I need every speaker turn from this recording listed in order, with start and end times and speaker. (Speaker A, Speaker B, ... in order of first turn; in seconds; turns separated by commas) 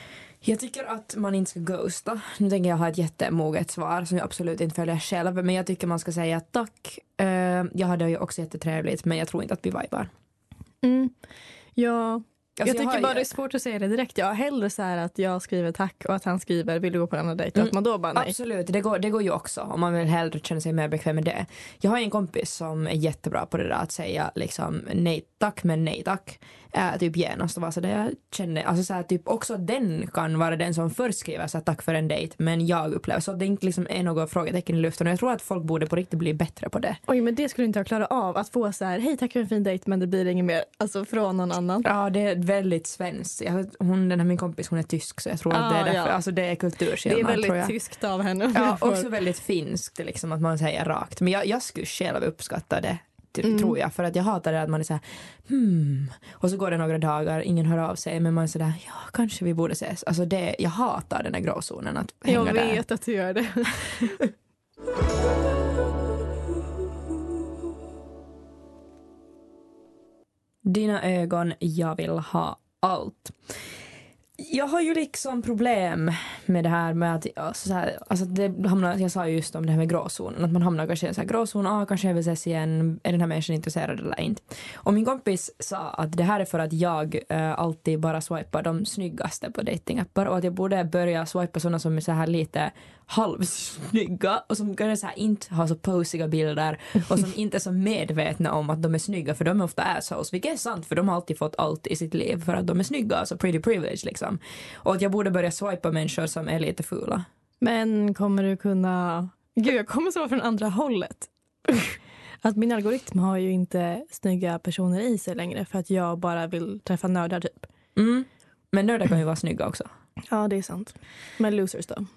Speaker A: 0.4-10.1, Speaker B: 10.8-11.2, Speaker B: 11.8-18.4, Speaker A: 12.6-13.3, Speaker A: 17.6-37.0, Speaker B: 37.1-41.9, Speaker A: 41.8-47.7, Speaker B: 45.5-46.2, Speaker B: 47.0-49.1, Speaker A: 48.5-62.8, Speaker B: 53.4-53.7, Speaker B: 62.3-64.2, Speaker A: 70.7-73.4, Speaker A: 74.4-107.3, Speaker B: 107.6-117.7, Speaker A: 118.0-119.9, Speaker B: 120.3-122.1